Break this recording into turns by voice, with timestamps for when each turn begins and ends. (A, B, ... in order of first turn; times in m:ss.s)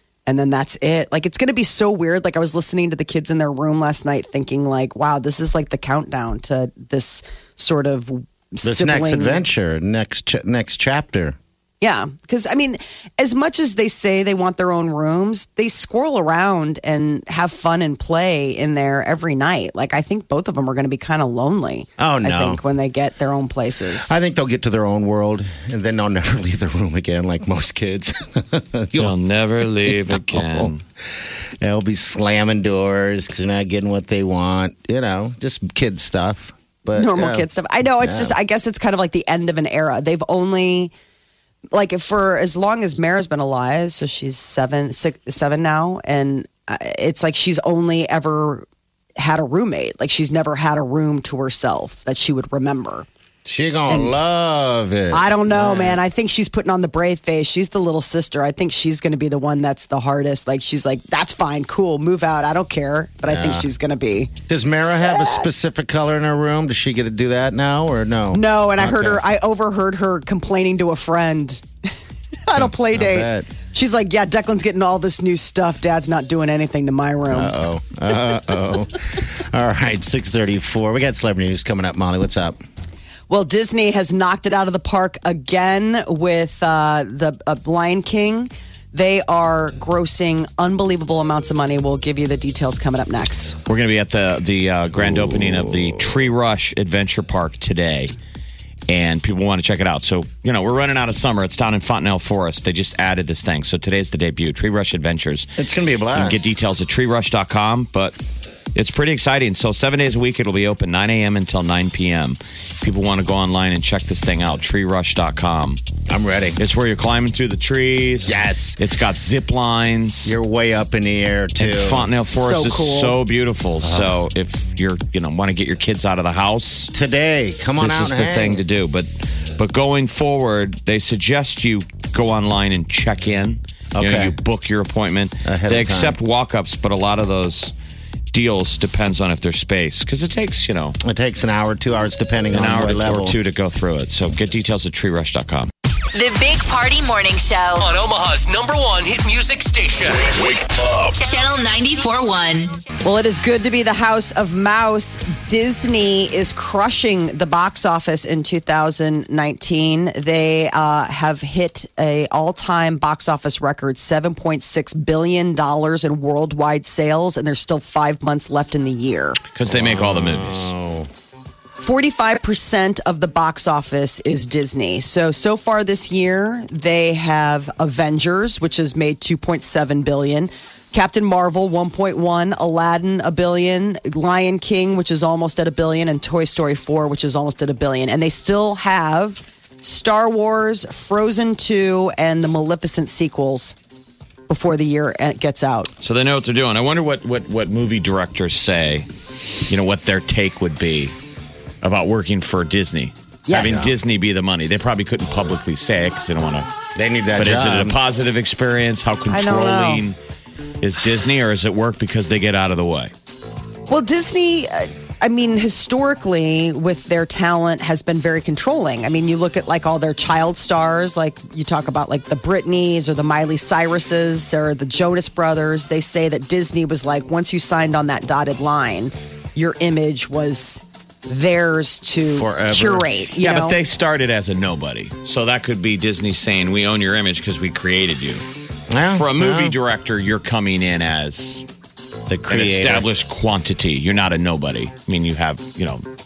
0:00.2-0:09.4 A
0:08.6-0:11.4 B
0:11.8-0:24.1 A
0:22.0-0:22.6 B
0:24.0-0:29.1 B
0:29.0-0:30.8 C
0:29.8-0:30.7 B
0:31.6-0:37.5 B
0:37.0-0:40.9 A
0:38.0-0:38.3 B
0:41.7-0:48.6 A
0:49.2-0:53.1 A
0:53.4-0:56.0 B
0:53.9-0:54.1 A
0:55.1-1:04.3 A
1:03.2-1:03.7 B
1:04.5-1:09.2 B
1:04.8-1:05.5 A
1:08.3-1:11.6 A
1:12.4-1:17.5 A
1:12.6-1:13.5 B
1:17.3-1:22.6 B
1:23.3-1:33.6 A
1:33.6-1:38.1 C
1:35.0-1:36.0 B
1:38.9-1:45.5 C
1:45.6-1:46.4 B
1:46.1-1:48.1 C
1:48.7-1:55.8 C
1:56.1-1:56.6 B
1:56.6-2:00.4 C
1:58.2-1:58.8 B
2:00.2-2:02.1 B
2:01.6-2:06.9 C
2:02.3-2:03.2 A
2:03.8-2:04.1 B
2:06.9-2:08.6 B
2:07.8-2:17.7 C
2:13.9-2:14.3 B
2:15.4-2:16.2 B
2:18.3-2:21.0 C
2:21.0-2:23.4 B
2:22.5-2:25.7 C
2:26.1-2:27.9 D
2:27.8-2:31.2 E
2:31.1-2:32.8 D
2:33.0-2:49.4 A
2:49.5-2:50.7 C
2:49.6-2:51.1 B
2:51.8-3:13.8 A
3:14.5-3:15.9 A
3:16.0-3:19.1 C
3:19.7-3:21.1 C
3:21.8-3:26.7 C
3:23.5-3:23.9 A
3:23.5-3:23.9 B
3:26.9-3:28.0 B
3:27.4-3:30.2 C
3:29.3-3:30.0 A
3:30.8-3:33.1 C
3:33.9-3:53.8 A
3:52.2-3:53.0 B
3:53.4-3:58.4 C
3:58.9-3:59.7 B
3:59.1-4:01.6 C
4:02.3-4:03.1 B
4:02.5-4:06.0 C